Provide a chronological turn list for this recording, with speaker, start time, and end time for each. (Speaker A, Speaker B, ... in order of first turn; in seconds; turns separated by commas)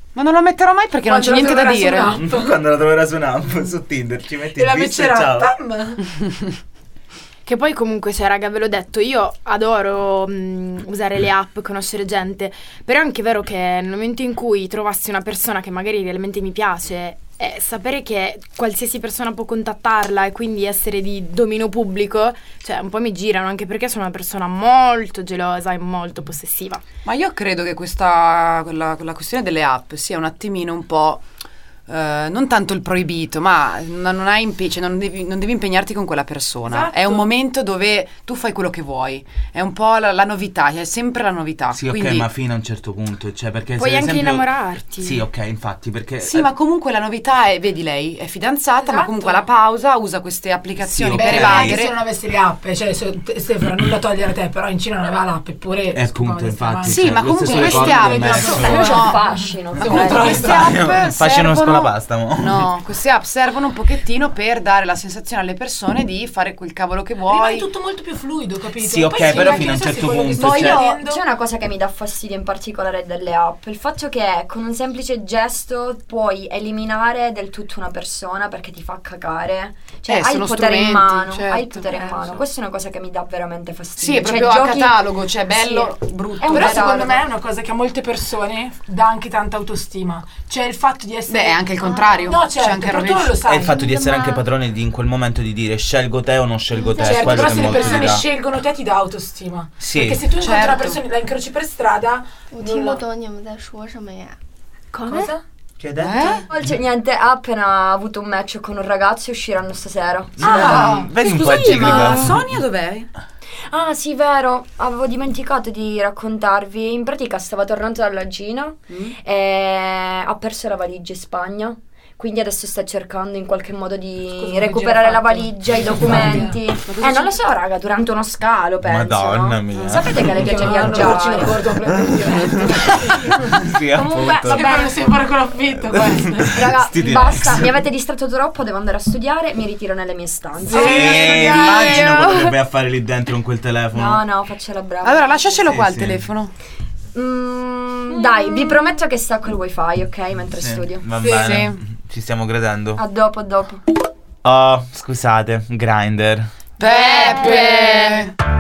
Speaker A: 0.1-2.2, Speaker B: 1.1-2.6, Speaker C: 2.2-5.5, Speaker B: 4.6-6.0, Speaker D: 7.5-26.8, Speaker A: 27.1-31.2, Speaker A: 31.9-42.3, Speaker B: 36.7-37.2, Speaker C: 41.7-46.5, Speaker D: 43.8-45.3, Speaker A: 46.2-52.0, Speaker B: 48.8-49.5, Speaker C: 50.8-51.8, Speaker B: 51.2-60.9, Speaker C: 55.9-59.0, Speaker A: 56.9-59.2, Speaker E: 58.5-60.6, Speaker A: 59.9-67.7, Speaker C: 60.6-62.6, Speaker B: 67.3-71.2, Speaker C: 68.8-70.9, Speaker A: 70.4-70.8, Speaker E: 70.5-87.3, Speaker A: 80.1-82.4, Speaker A: 84.0-87.0, Speaker B: 86.5-93.8, Speaker A: 91.3-93.6, Speaker C: 93.5-98.2, Speaker F: 93.7-94.4, Speaker F: 97.0-98.1, Speaker B: 97.0-103.0, Speaker C: 99.8-100.2, Speaker A: 100.3-101.0, Speaker F: 102.5-104.4, Speaker D: 104.9-105.3, Speaker B: 105.1-105.3, Speaker C: 105.8-106.7, Speaker A: 106.0-106.5, Speaker E: 106.5-111.0, Speaker C: 110.4-112.6, Speaker A: 110.4-113.1, Speaker E: 113.7-131.7, Speaker B: 124.3-126.6, Speaker A: 126.9-127.3, Speaker C: 128.8-130.9, Speaker B: 130.1-133.6, Speaker C: 132.4-134.7, Speaker E: 133.9-135.2, Speaker B: 134.4-136.6, Speaker C: 136.4-137.7, Speaker E: 136.4-141.6, Speaker B: 140.7-142.0, Speaker C: 140.7-144.2, Speaker F: 141.9-142.4, Speaker E: 143.9-145.8, Speaker A: 145.0-146.5, Speaker C: 145.7-146.3, Speaker E: 147.1-151.1, Speaker C: 150.5-153.0, Speaker B: 151.2-151.6, Speaker A: 151.3-151.8, Speaker E: 153.0-153.8, Speaker C: 154.4-156.5, Speaker A: 156.8-158.3, Speaker D: 156.8-158.0